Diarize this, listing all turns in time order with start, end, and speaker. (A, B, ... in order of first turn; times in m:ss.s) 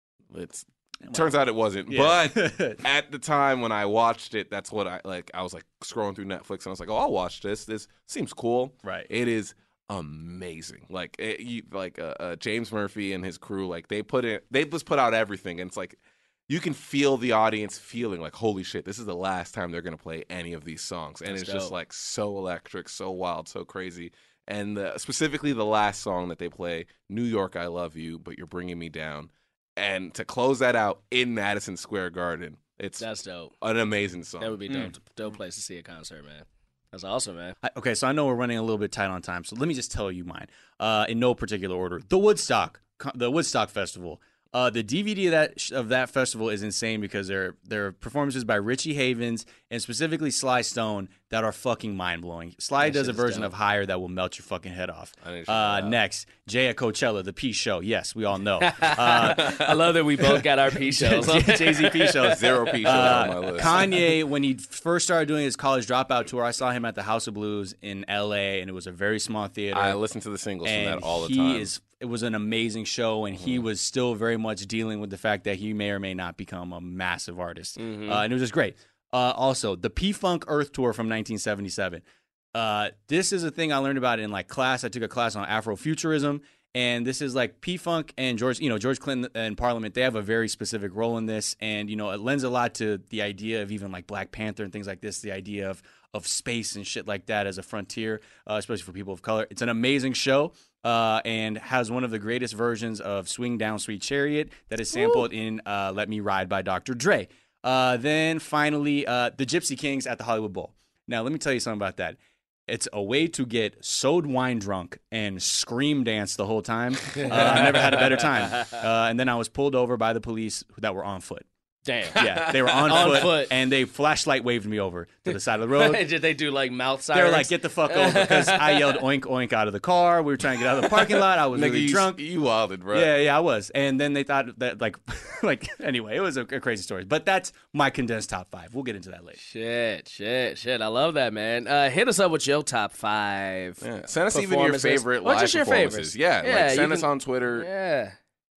0:00.3-0:33.0 A
0:01.0-0:01.3 B
0:01.9-0:02.8 B
0:08.8-0:09.1 B
0:21.3-0:21.7 C
0:33.0-0:33.5 C
0:33.6-0:34.6 A
0:34.4-0:37.6 C
0:34.7-0:34.9 B
0:37.6-0:59.6 B
0:52.8-0:53.5 C
0:55.2-0:56.0 A
0:58.6-1:03.9 C
1:00.9-1:10.0 B
1:02.2-1:03.9 A
1:09.7-1:11.7 A
1:10.6-1:22.0 B
1:13.4-1:13.6 A
1:17.8-1:18.2 C
1:22.5-1:52.2 B
1:44.9-1:45.2 C
1:52.7-2:01.4 B
1:57.1-1:58.8 C
2:01.8-2:03.5 C
2:02.1-2:06.0 B
2:02.2-2:03.2 A
2:05.3-2:09.0 C
2:07.1-2:12.2 B
2:11.5-2:13.1 A
2:12.9-2:19.4 B
2:19.4-2:28.1 C
2:23.8-2:27.7 A